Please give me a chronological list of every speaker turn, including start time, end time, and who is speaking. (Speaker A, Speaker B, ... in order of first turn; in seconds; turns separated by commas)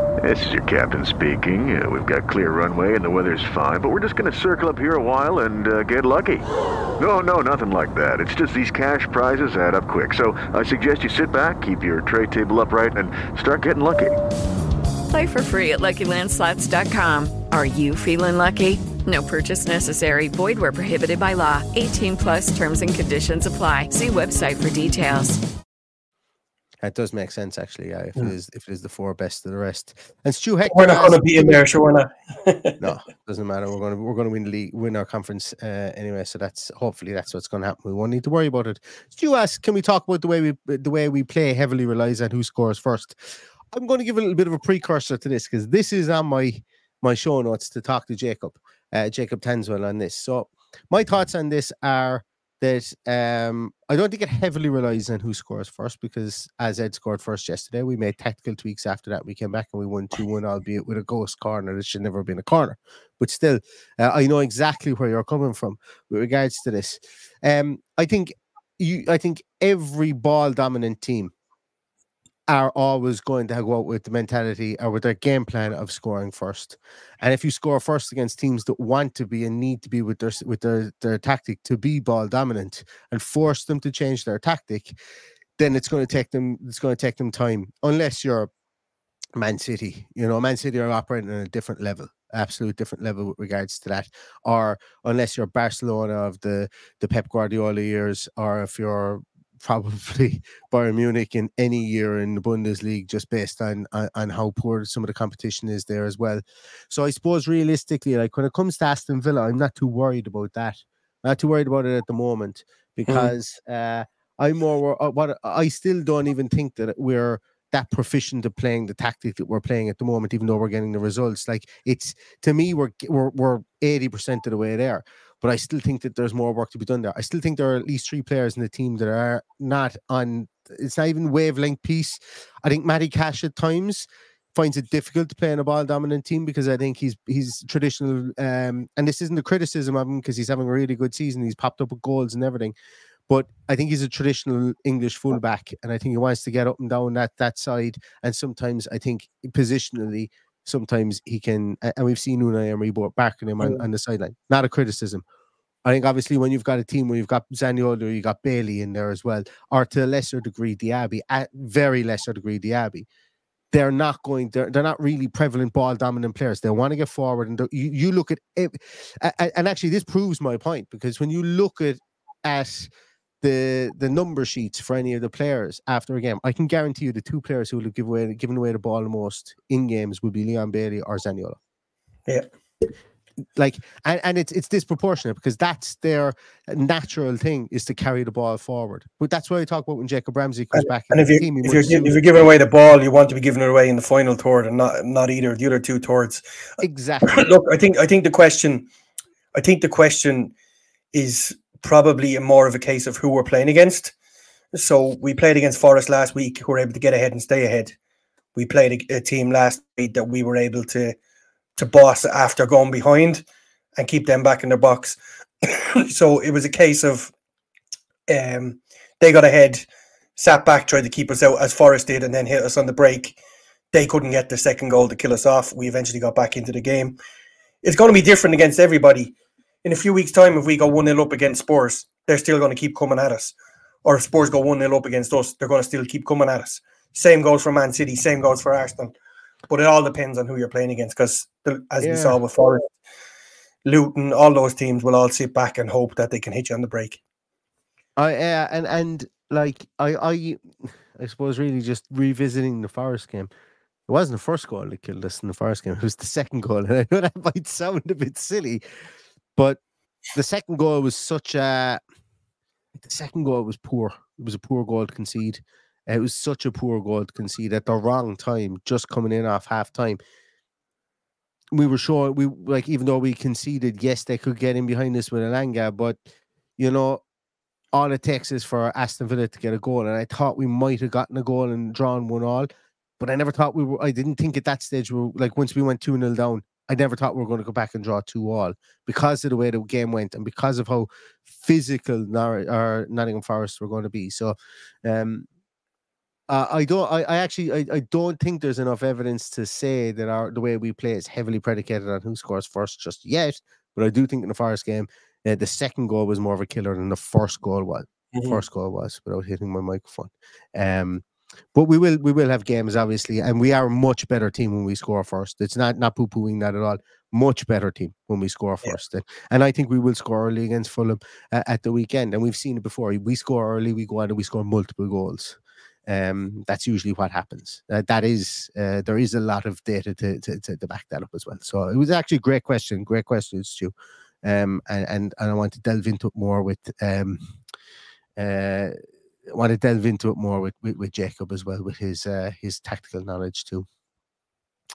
Speaker A: 0.2-6.5, Speaker A: 7.0-14.2, Speaker B: 15.1-25.4, Speaker C: 26.8-31.6, Speaker D: 30.7-32.8, Speaker C: 32.8-71.3, Speaker C: 72.5-85.0, Speaker C: 85.6-88.5, Speaker C: 89.4-142.8, Speaker D: 113.1-113.3, Speaker C: 143.3-155.2, Speaker C: 155.8-163.1, Speaker C: 163.7-172.9, Speaker C: 173.4-181.6, Speaker C: 183.6-192.2, Speaker D: 190.8-196.4, Speaker C: 196.8-197.5, Speaker D: 197.3-198.9, Speaker D: 199.6-200.5, Speaker D: 201.1-204.1, Speaker D: 204.7-207.9, Speaker D: 208.6-211.2, Speaker D: 211.8-213.4, Speaker D: 214.0-217.3, Speaker D: 218.3-219.9, Speaker D: 220.4-223.4, Speaker D: 223.9-227.2, Speaker D: 227.8-239.1, Speaker D: 239.7-242.9, Speaker C: 242.0-242.4, Speaker D: 243.8-247.2, Speaker C: 248.2-253.5, Speaker C: 254.1-258.8, Speaker C: 260.3-262.0, Speaker C: 263.0-270.2, Speaker C: 271.7-277.2, Speaker C: 277.9-282.7, Speaker C: 283.2-295.5, Speaker C: 296.5-311.2, Speaker D: 308.3-308.6, Speaker C: 311.8-337.5, Speaker C: 338.4-339.0, Speaker C: 339.5-343.9